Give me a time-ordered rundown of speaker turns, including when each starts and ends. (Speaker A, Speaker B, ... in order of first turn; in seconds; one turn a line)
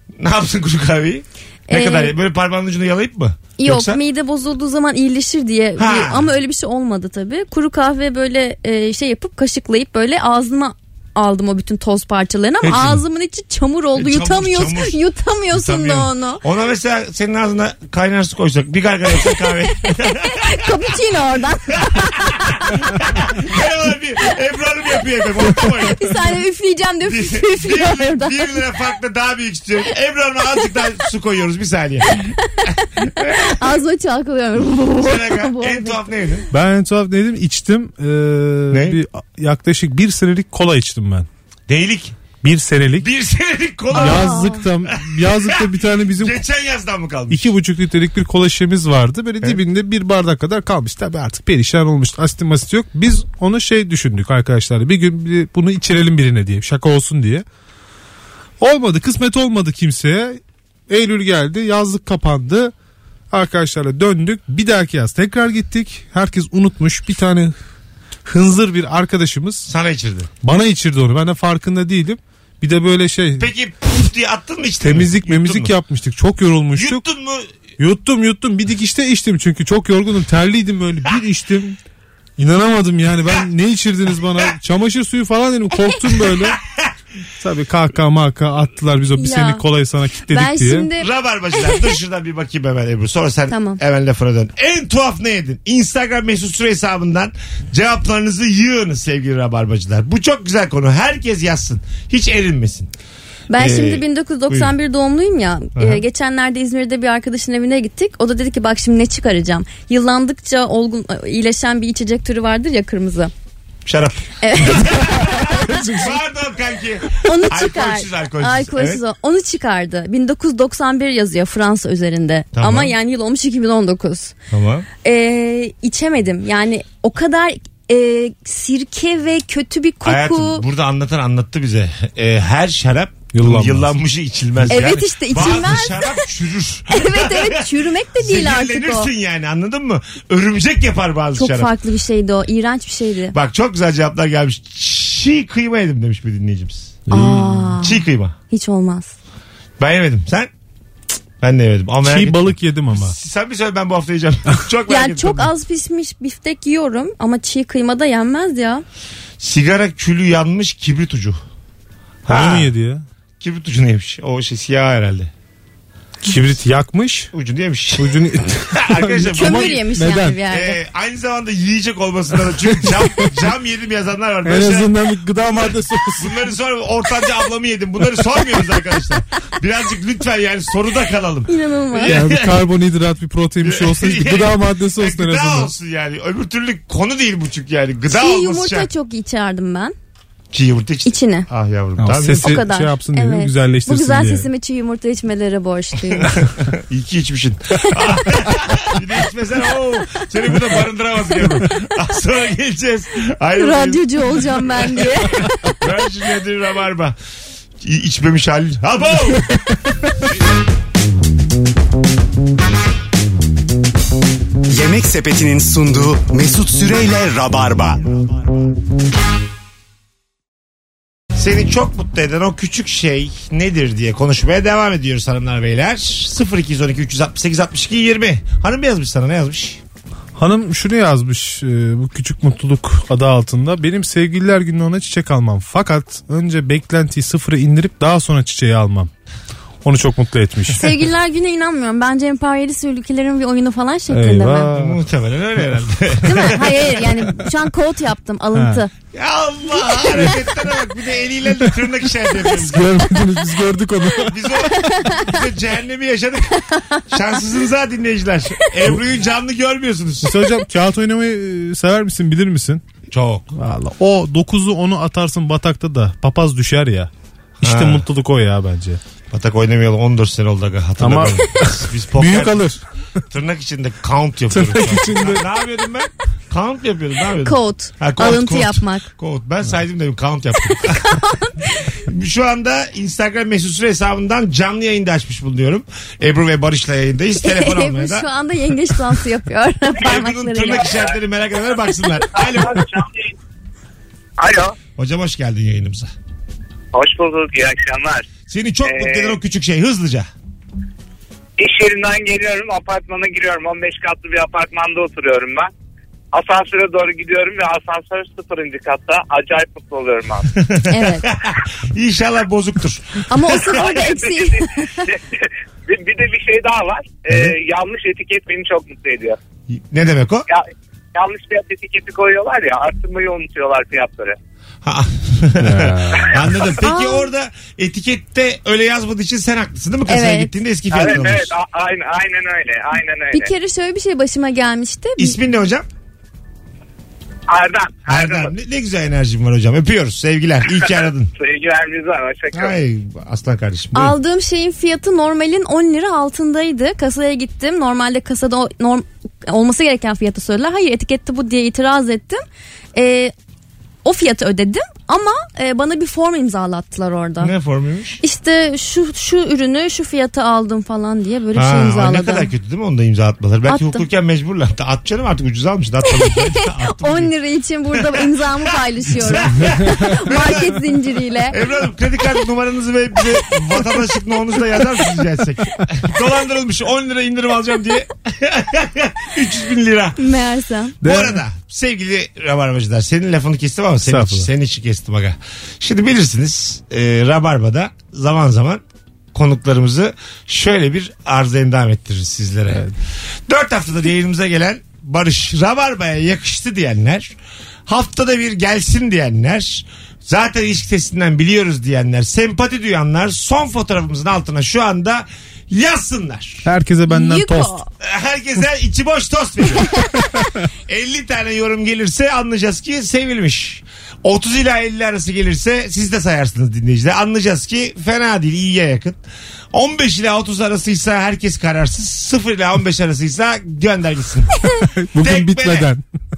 Speaker A: 0.2-4.0
Speaker B: 1.7-2.1
Speaker B: 3.6-16.4
Speaker A: 5.8-6.3
Speaker A: 12.6-13.0
Speaker A: 13.9-15.0
Speaker A: 15.5-20.8
Speaker B: 19.8-22.6
Speaker A: 21.8-26.2
Speaker B: 25.6-28.6
Speaker A: 27.1-33.6
Speaker B: 33.2-36.1
Speaker A: 35.0-36.5
Speaker C: 36.5-41.3
Speaker A: 38.7-39.0
Speaker A: 41.7-42.2
Speaker C: 42.4-43.1
Speaker A: 43.0-47.5
Speaker C: 43.9-46.4
Speaker B: 43.9-44.6
Speaker C: 47.3-57.5
Speaker C: 58.6-62.7
Speaker C: 63.3-67.6
Speaker C: 68.3-69.7
Speaker A: 69.7-70.3
Speaker C: 70.4-73.5
Speaker A: 73.4-75.7
Speaker C: 74.8-77.0
Speaker A: 76.7-77.5
Speaker C: 77.8-81.8
Speaker C: 82.4-86.6
Speaker A: 86.2-86.9
Speaker C: 87.4-90.9
Speaker B: 89.2-89.6
Speaker B: 90.3-91.9
Speaker A: 91.0-102.9
Speaker B: 93.5-93.8
Speaker B: 103.5-113.3
Speaker A: 103.5-104.7
Speaker A: 105.8-106.0
Speaker A: 113.9-119.0
Speaker B: 114.4-115.8
Speaker C: 115.5-116.1
Speaker B: 117.2-124.3
Speaker A: 122.5-123.0
Speaker A: 124.5-124.9
Speaker B: 125.0-130.6
Speaker A: 130.1-141.7
Speaker C: 133.3-133.9
Speaker B: 134.7-136.2
Speaker B: 136.9-139.1
Speaker B: 141.4-143.3
Speaker A: 143.3-147.1
Speaker C: 147.1-147.8
Speaker B: 147.1-149.1
Speaker A: 147.8-148.4
Speaker A: 149.8-150.5
Speaker A: 151.4-155.5
Speaker C: 152.0-153.2
Speaker B: 154.9-158.8
Speaker A: 159.4-161.4
Speaker A: 162.2-162.7
Speaker C: 162.3-163.1
Speaker A: 163.4-165.3
Speaker C: 166.2-167.3
Speaker A: 167.3-168.2
Speaker C: 168.0-170.4
Speaker A: 168.7-169.9
Speaker B: 169.3-170.8
Speaker A: 170.4-174.9
Speaker C: 174.4-176.4
Speaker A: 175.5-182.6
Speaker B: 181.5-182.2
Speaker C: 182.0-185.7
Speaker A: 183.6-188.9
Speaker B: 188.1-189.9
Speaker A: 190.5-192.7
Speaker B: 191.1-191.5
Speaker C: 192.0-194.5
Speaker B: 192.3-196.4
Speaker A: 196.1-205.1
Speaker B: 203.6-205.7
Speaker A: 205.8-207.2
Speaker A: 207.8-209.5
Speaker D: 214.7-218.1
Speaker A: 221.3-229.8
Speaker C: 230.4-239.1
Speaker C: 239.8-240.8
Speaker B: 240.8-244.7
Speaker C: 244.1-245.0
Speaker A: 244.7-246.8
Speaker B: 246.2-248.9
Speaker C: 248.6-248.8
Speaker A: 249.1-253.0
Speaker B: 249.8-250.4
Speaker C: 252.5-254.4
Speaker A: 254.3-260.4
Speaker B: 254.7-255.4
Speaker B: 256.7-257.1
Speaker C: 260.2-262.8
Speaker A: 263.1-263.6
Speaker C: 263.6-269.0
Speaker A: 267.6-268.1
Speaker A: 269.3-272.7
Speaker C: 271.0-272.8
Speaker A: 273.3-281.1
Speaker C: 274.5-275.4
Speaker B: 277.4-279.1
Speaker B: 280.7-281.7
Speaker A: 282.0-288.3
Speaker B: 287.4-291.0
Speaker A: 290.0-292.9
Speaker E: 292.3-293.3
Speaker E: 294.4-294.8
Speaker A: 295.0-296.1
Speaker E: 296.9-298.3
Speaker A: 298.5-300.3
Speaker E: 298.9-299.4
Speaker E: 301.6-305.7
Speaker E: 306.3-310.5
Speaker A: 310.6-313.6
Speaker B: 310.9-311.3
Speaker B: 313.3-315.1
Speaker E: 313.7-319.4
Speaker A: 319.7-320.5
Speaker E: 320.5-324.4
Speaker A: 324.8-331.5
Speaker C: 325.6-326.4
Speaker B: 326.8-327.3
Speaker B: 330.1-330.5
Speaker E: 330.9-333.5
Speaker B: 333.3-335.4
Speaker A: 335.2-335.9
Speaker E: 337.5-338.5
Speaker A: 338.1-341.3
Speaker E: 340.8-342.8
Speaker A: 342.5-344.2
Speaker B: 343.9-352.4
Speaker B: 352.9-353.3
Speaker B: 354.0-357.5
Speaker A: 357.4-358.2
Speaker B: 358.2-362.5
Speaker A: 361.5-367.3
Speaker B: 363.7-364.1
Speaker B: 366.1-371.6
Speaker A: 367.9-371.0
Speaker A: 371.5-380.2
Speaker B: 380.2-381.0
Speaker A: 381.0-388.8
Speaker C: 381.0-381.4
Speaker C: 384.0-384.5
Speaker A: 389.3-392.8
Speaker A: 393.5-397.4
Speaker A: 397.9-406.7
Speaker C: 406.6-407.8
Speaker B: 407.1-407.9
Speaker A: 408.0-410.0
Speaker A: 410.9-419.2
Speaker A: 419.7-424.5
Speaker C: 425.0-426.0
Speaker A: 425.2-425.9